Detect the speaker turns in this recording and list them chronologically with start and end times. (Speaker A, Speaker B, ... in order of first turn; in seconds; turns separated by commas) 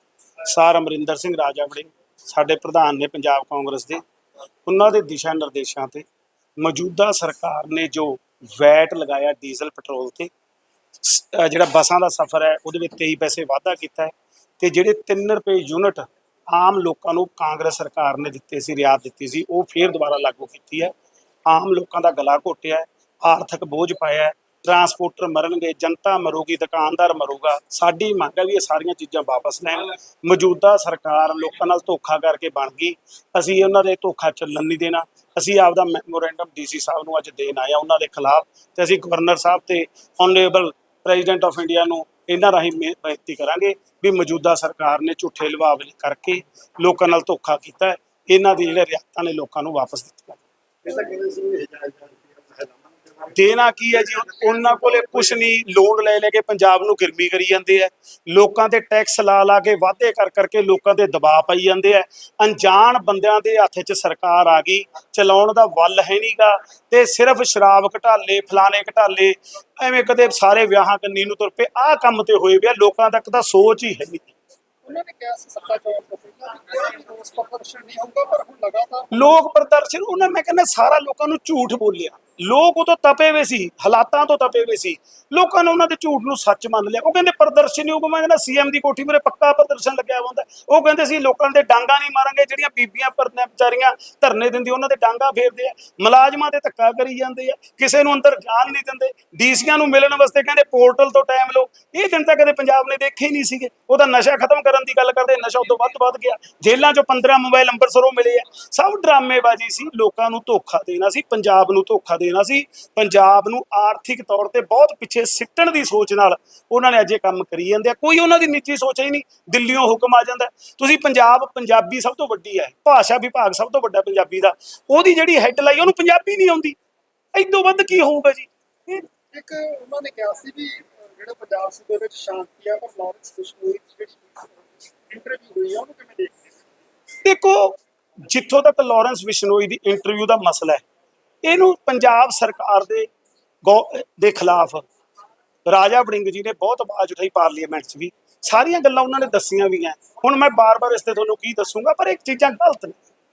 Speaker A: 0.5-4.0, Speaker A: 4.7-6.0, Speaker A: 6.6-10.3, Speaker A: 11.0-20.9, Speaker A: 21.5-50.4, Speaker B: 50.8-53.3, Speaker A: 53.3-74.3, Speaker C: 74.8-79.3, Speaker A: 79.1-126.8, Speaker A: 127.3-129.0, Speaker C: 129.3-136.5, Speaker A: 137.2-140.8, Speaker A: 141.4-143.1, Speaker A: 143.6-144.8, Speaker A: 145.7-153.0